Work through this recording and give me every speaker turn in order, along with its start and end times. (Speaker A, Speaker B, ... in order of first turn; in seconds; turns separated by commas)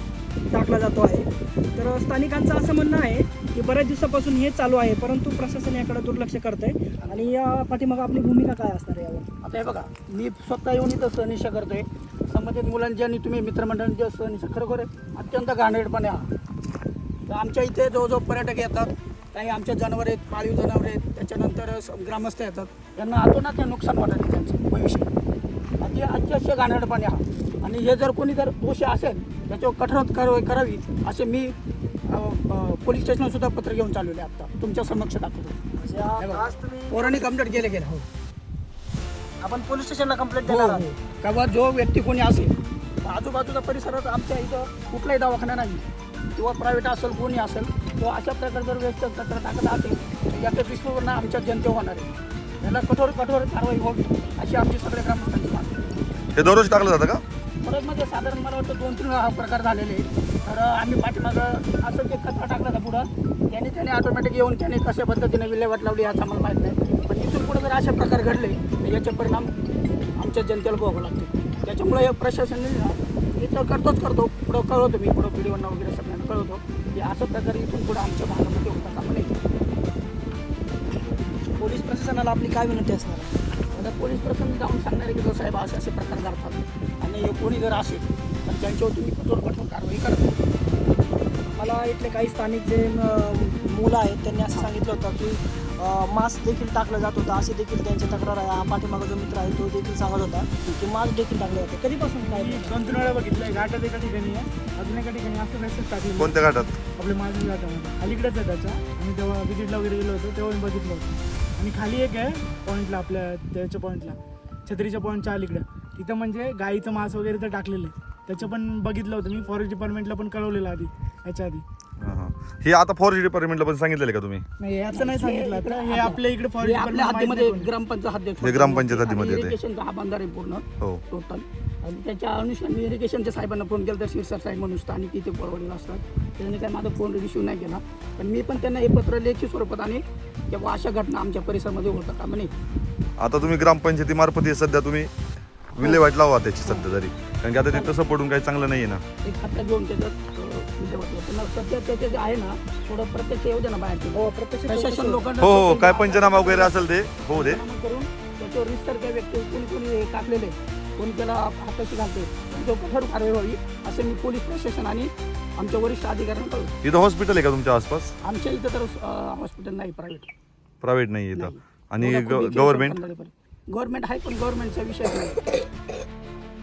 Speaker A: 0.5-9.3, Speaker B: 9.4-16.3, Speaker B: 17.3-25.1, Speaker B: 25.8-31.5, Speaker B: 32.1-35.6, Speaker A: 35.8-37.4, Speaker B: 36.2-38.1, Speaker A: 39.4-40.8, Speaker B: 40.4-45.8, Speaker B: 46.4-55.8, Speaker C: 56.3-57.2, Speaker B: 57.6-69.5, Speaker B: 70.2-79.3, Speaker A: 81.6-83.3, Speaker B: 83.7-90.3, Speaker A: 91.5-102.8, Speaker D: 102.3-106.4, Speaker C: 106.2-106.8, Speaker D: 106.9-121.6, Speaker C: 122.0-124.4, Speaker D: 124.6-127.7, Speaker B: 124.9-142.5, Speaker C: 128.4-129.6, Speaker C: 143.2-145.1, Speaker C: 145.7-149.0, Speaker B: 147.7-147.9, Speaker B: 149.2-166.7, Speaker A: 154.1-155.3, Speaker C: 155.4-157.6, Speaker C: 166.8-168.1, Speaker B: 168.2-170.3, Speaker C: 170.8-173.0, Speaker B: 171.3-175.5